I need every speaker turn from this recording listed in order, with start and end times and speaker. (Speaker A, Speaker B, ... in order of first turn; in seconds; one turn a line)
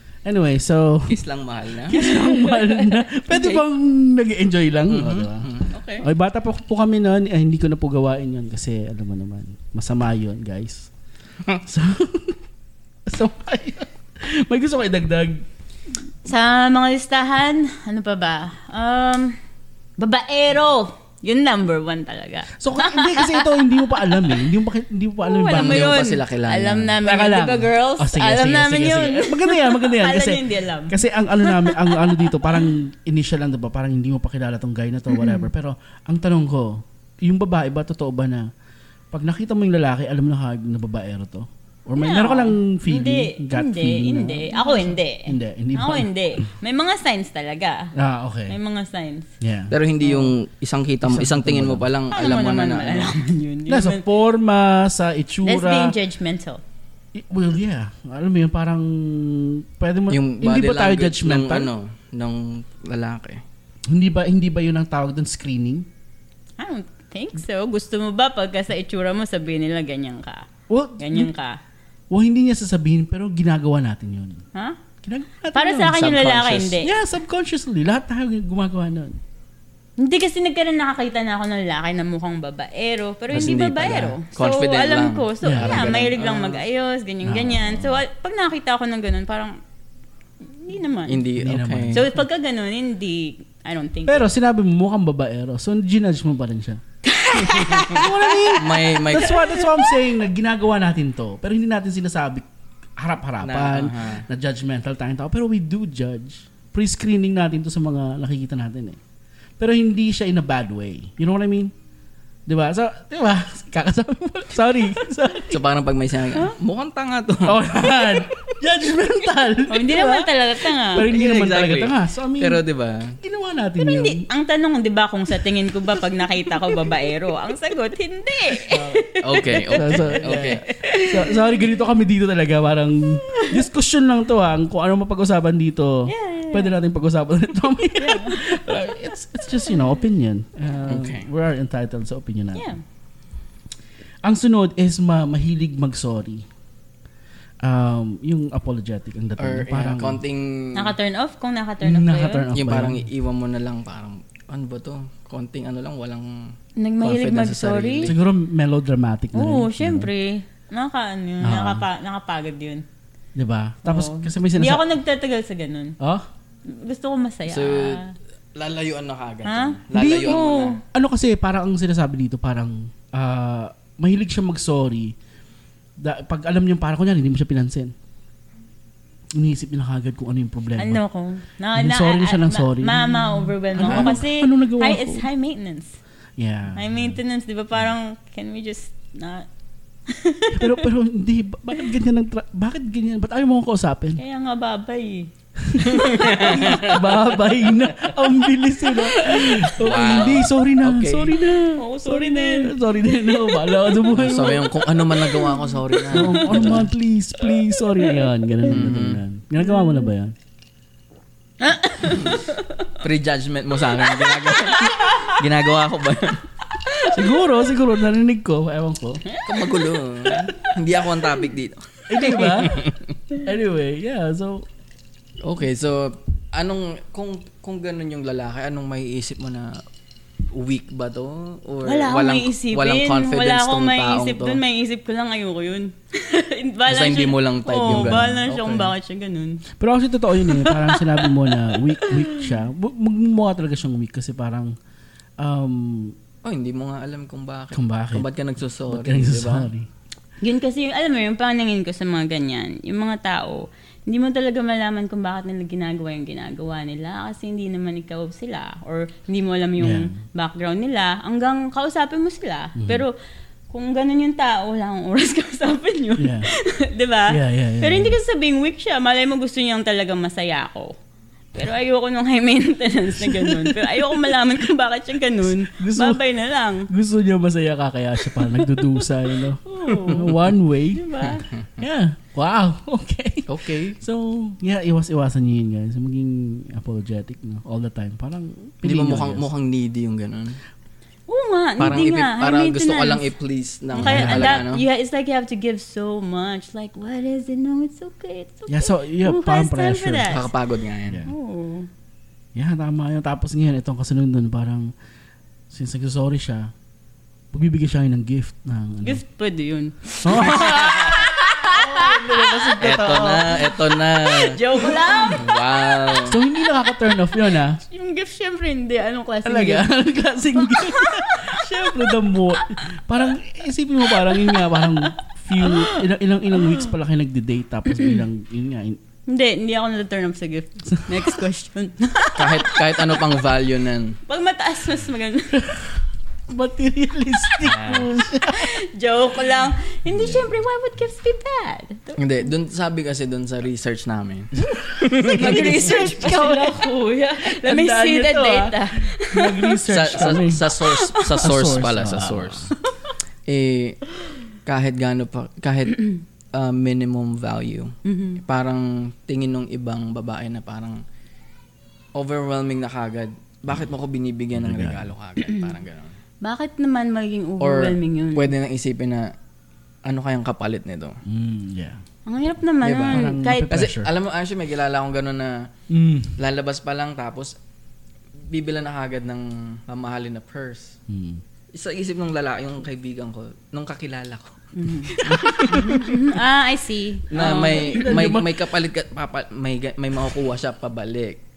Speaker A: 0.2-1.2
Speaker B: 1.1-2.2
Speaker A: 1.9-10.9
Speaker B: 3.3-3.6
Speaker B: 4.9-6.0
Speaker A: 11.6-12.4
Speaker A: 13.1-15.4
Speaker C: 16.2-19.4
Speaker C: 20.0-24.3
Speaker A: 22.6-26.0
Speaker C: 25.2-32.7
Speaker B: 25.5-27.0
Speaker A: 27.0-38.5
Speaker C: 35.1-35.4
Speaker A: 39.1-46.1
Speaker C: 42.0-47.9
Speaker A: 48.0-48.6
Speaker C: 48.5-49.3
Speaker A: 49.4-50.3
Speaker B: 49.7-53.2
Speaker A: 51.0-51.9
Speaker C: 52.1-54.0
Speaker A: 53.7-56.0
Speaker C: 55.4-56.6
Speaker A: 57.1-61.7
Speaker B: 60.1-63.4
Speaker A: 63.9-65.9
Speaker C: 66.6-70.5
Speaker A: 70.7-71.3
Speaker C: 71.0-71.6
Speaker A: 72.1-74.4
Speaker A: 75.0-76.0
Speaker C: 75.5-76.9
Speaker B: 75.9-76.8
Speaker A: 76.8-79.2
Speaker C: 80.0-89.6
Speaker B: 83.3-86.6
Speaker A: 85.4-86.0
Speaker A: 87.2-88.0
Speaker C: 90.4-91.2
Speaker B: 91.1-92.1
Speaker A: 91.4-92.2
Speaker C: 91.9-94.3
Speaker A: 94.1-96.8
Speaker C: 97.1-98.6
Speaker A: 97.8-102.5
Speaker B: 98.6-99.5
Speaker C: 99.5-99.8
Speaker A: 103.0-109.0
Speaker B: 103.4-104.2
Speaker A: 109.6-111.7
Speaker A: 112.5-115.6
Speaker B: 115.5-117.6
Speaker A: 117.5-122.6
Speaker C: 119.7-121.1
Speaker B: 121.0-123.2
Speaker A: 123.2-124.2
Speaker C: 123.8-131.5
Speaker A: 128.7-129.1
Speaker B: 129.2-130.6
Speaker A: 129.6-142.7
Speaker C: 136.1-136.7
Speaker C: 138.0-138.6
Speaker B: 140.9-141.3
Speaker C: 142.6-142.8
Speaker A: 144.2-146.5
Speaker A: 147.6-150.2
Speaker B: 149.4-150.9
Speaker C: 150.8-152.5
Speaker A: 151.8-153.1
Speaker B: 152.5-158.2
Speaker C: 156.8-158.1
Speaker A: 158.0-160.1
Speaker C: 159.3-162.8
Speaker A: 161.4-161.8
Speaker A: 163.3-164.8
Speaker C: 163.8-166.0
Speaker A: 166.0-166.3
Speaker C: 166.7-168.2
Speaker B: 167.5-168.0
Speaker B: 168.6-170.8
Speaker C: 169.4-170.8
Speaker A: 169.9-175.2
Speaker A: 176.0-177.9
Speaker A: 179.3-181.0
Speaker C: 180.8-186.0
Speaker A: 181.8-185.3
Speaker B: 183.9-184.2
Speaker A: 186.4-187.2
Speaker C: 186.8-189.5
Speaker C: 190.1-190.9
Speaker A: 190.5-194.2
Speaker C: 194.2-196.9
Speaker A: 195.6-204.8
Speaker B: 195.9-197.2
Speaker C: 198.9-199.8
Speaker B: 199.8-201.3
Speaker C: 201.8-203.9
Speaker B: 204.1-206.9
Speaker C: 205.2-206.8
Speaker A: 206.1-210.3
Speaker B: 208.7-209.2
Speaker C: 211.6-212.8
Speaker B: 212.1-212.4
Speaker B: 213.0-216.4
Speaker C: 214.2-215.2
Speaker C: 216.9-217.2
Speaker A: 217.1-219.2
Speaker C: 219.3-219.7
Speaker B: 219.4-222.9
Speaker A: 222.1-224.7
Speaker B: 225.4-229.8
Speaker B: 230.5-234.6
Speaker C: 231.8-239.6
Speaker B: 236.9-238.9
Speaker A: 238.0-238.3
Speaker A: 239.8-244.8
Speaker C: 240.4-242.5
Speaker A: 245.4-246.2
Speaker B: 246.4-249.7
Speaker A: 247.7-248.3
Speaker A: 248.9-249.9
Speaker C: 250.4-263.2
Speaker A: 259.8-260.2
Speaker A: 262.8-263.0
Speaker C: 263.7-271.0
Speaker A: 266.2-266.5
Speaker A: 267.3-268.2
Speaker C: 271.5-276.9
Speaker A: 273.2-274.1
Speaker A: 275.5-276.2
Speaker A: 276.9-281.3
Speaker C: 278.4-278.8
Speaker C: 279.7-281.5
Speaker A: 281.8-289.4
Speaker B: 283.5-284.0
Speaker B: 288.8-290.6
Speaker C: 291.3-293.3
Speaker B: 291.8-294.9
Speaker C: 293.9-300.5
Speaker A: 294.0-294.7
Speaker A: 298.7-300.4
Speaker B: 300.3-301.2
Speaker C: 301.3-301.9
Speaker A: 302.6-304.9
Speaker A: 305.7-306.7
Speaker A: 307.5-309.2
Speaker C: 309.0-312.7
Speaker A: 310.2-313.7
Speaker B: 310.4-311.1
Speaker B: 312.8-314.6
Speaker C: 313.6-316.2
Speaker A: 314.8-315.3
Speaker B: 315.3-316.4
Speaker A: 316.2-317.8
Speaker C: 317.8-319.9
Speaker A: 319.4-329.0
Speaker C: 320.6-322.1
Speaker C: 324.1-326.0
Speaker C: 327.9-328.2
Speaker C: 329.3-333.1
Speaker A: 331.0-331.4
Speaker B: 332.4-334.2
Speaker C: 334.3-335.7
Speaker A: 335.6-335.9
Speaker A: 336.5-338.8
Speaker B: 337.7-338.0
Speaker C: 337.7-342.2
Speaker A: 340.1-340.5
Speaker B: 342.2-346.1
Speaker A: 344.6-350.7
Speaker C: 345.3-349.8
Speaker B: 349.9-352.7
Speaker C: 350.7-351.5
Speaker A: 351.4-352.7
Speaker B: 353.5-354.0
Speaker B: 354.7-361.0
Speaker C: 358.1-358.4
Speaker B: 362.1-366.1
Speaker A: 364.6-365.1
Speaker C: 365.4-365.7
Speaker C: 366.4-368.5
Speaker B: 367.6-369.3
Speaker B: 370.1-371.2
Speaker A: 371.3-372.0
Speaker C: 372.3-373.7
Speaker B: 372.8-375.7
Speaker A: 373.1-374.1
Speaker A: 375.9-376.4
Speaker B: 376.4-377.5
Speaker B: 378.5-381.0
Speaker A: 381.1-381.4
Speaker B: 381.7-384.6
Speaker C: 384.8-388.2
Speaker B: 385.1-386.2
Speaker A: 385.2-385.9
Speaker B: 387.3-391.4
Speaker A: 387.3-388.6